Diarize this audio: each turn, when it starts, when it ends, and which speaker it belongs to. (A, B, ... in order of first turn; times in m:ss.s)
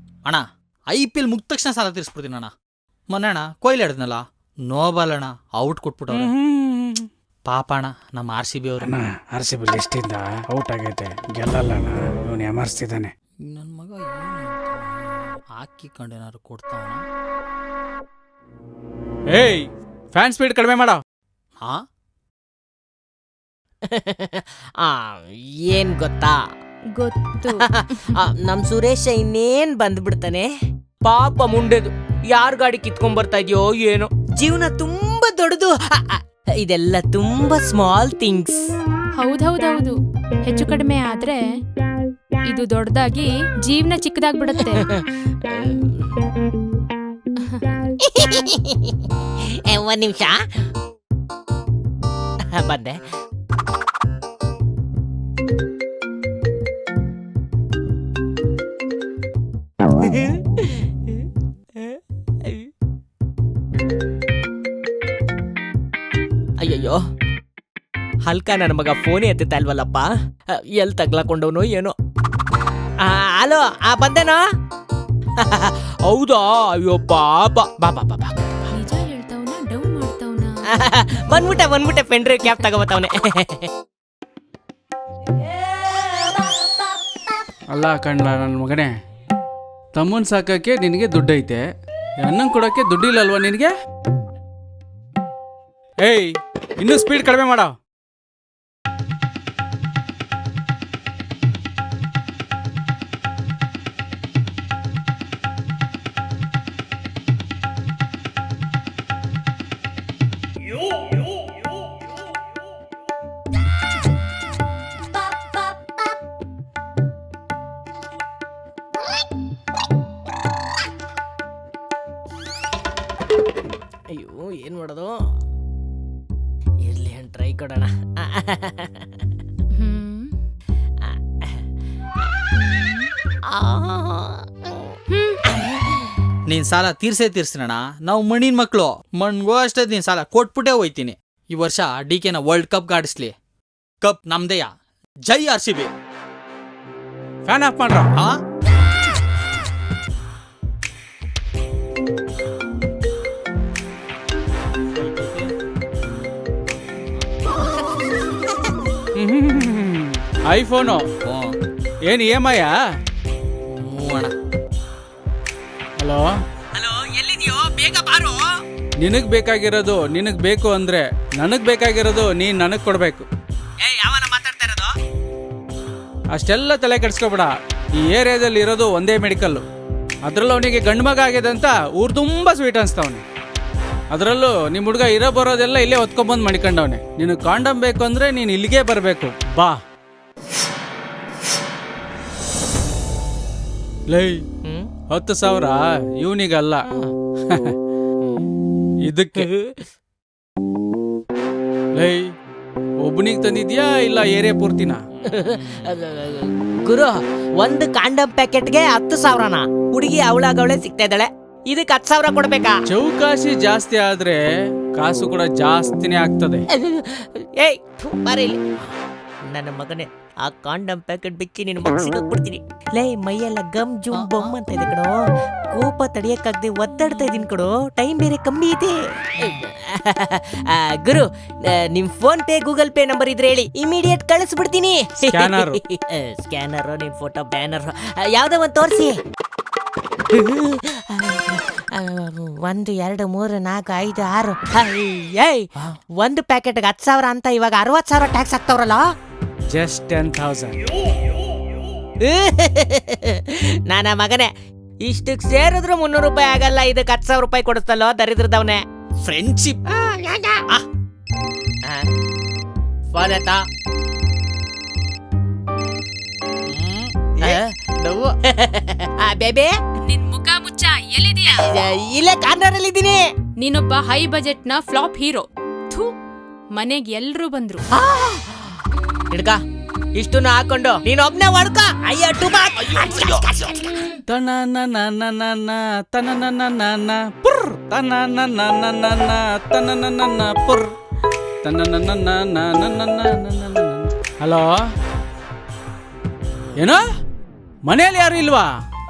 0:00.2-0:02.5 A
0:03.1-0:06.3 A
0:06.1-0:07.1 B
0:07.5-0:09.0 A
0:08.8-0:13.1 B
0:13.4-0:17.0 A
0:19.3-0:21.0 B
0:23.9-0:26.4 C
0:26.9-0:28.1 D
0:27.6-0:30.5 C
0:31.0-0:38.6 C
0:39.2-0:41.4 D
0:42.5-0:44.8 D
0:44.6-0:46.2 C
0:47.4-0:47.7 D
0:48.0-0:50.4 C
0:52.5-0:53.0 C
1:00.0-1:01.2 C
1:01.8-1:02.7 C
1:06.6-1:07.0 C
1:08.2-1:11.9 C
1:13.0-1:14.4 C
1:15.4-1:18.7 C
1:18.7-1:20.5 D
1:20.7-1:23.7 C
1:27.7-1:28.9 B
1:29.9-1:31.6 B
1:32.2-1:33.7 B
1:36.0-1:37.7 B
2:04.1-2:05.2 C
2:06.8-2:09.2 C
2:09.7-2:10.3 D
2:11.0-2:11.6 C
2:13.5-2:15.0 C
2:15.1-2:15.4 D
2:15.5-2:16.1 C
2:16.5-2:23.3 A
2:24.0-2:24.7 A
2:25.2-2:25.9 A
2:27.4-2:28.1 B
2:35.0-2:35.5 A
2:39.2-2:41.0 B
2:41.2-2:41.5 A
2:42.0-2:42.8 B
2:43.7-2:44.3 A
2:46.0-2:46.3 B
2:46.7-2:48.5 C
2:49.0-2:53.2 B
2:53.8-2:54.9 C
2:56.3-2:59.6 B
3:00.2-3:03.2 B
3:04.1-3:09.8 B
3:14.1-3:14.4 B
3:14.6-3:14.9 C
3:15.1-3:16.8 B
3:17.5-3:17.8 B
3:19.0-3:19.5 B
3:19.4-3:19.9 C
3:21.9-3:22.3 B
3:23.0-3:25.0 B
3:25.2-3:32.8 C
3:32.9-3:34.4 B
3:34.9-3:36.6 B
3:36.7-3:38.6 C
3:39.5-3:45.2 C
3:44.1-3:44.6 A
3:45.7-3:59.2 C
3:55.3-3:55.8 B
4:00.3-4:09.1 C
4:09.7-4:10.8 B
4:12.2-4:14.5 C
4:15.0-4:18.8 C
4:19.2-4:19.8 A
4:19.8-4:20.8 C
4:21.8-4:22.1 C
4:23.1-4:23.6 C
4:26.7-4:28.4 A
4:27.4-4:27.7 C
4:28.4-4:29.7 C
4:30.0-4:31.8 D
4:31.5-4:33.3 C
4:33.6-4:36.2 D
4:36.7-4:37.8 D
4:37.9-4:38.8 C
4:39.3-4:39.6 C
4:40.2-4:44.2 C
4:44.3-4:50.9 B
4:51.6-4:54.9 B
4:56.8-4:57.0 B
4:57.8-4:58.7 B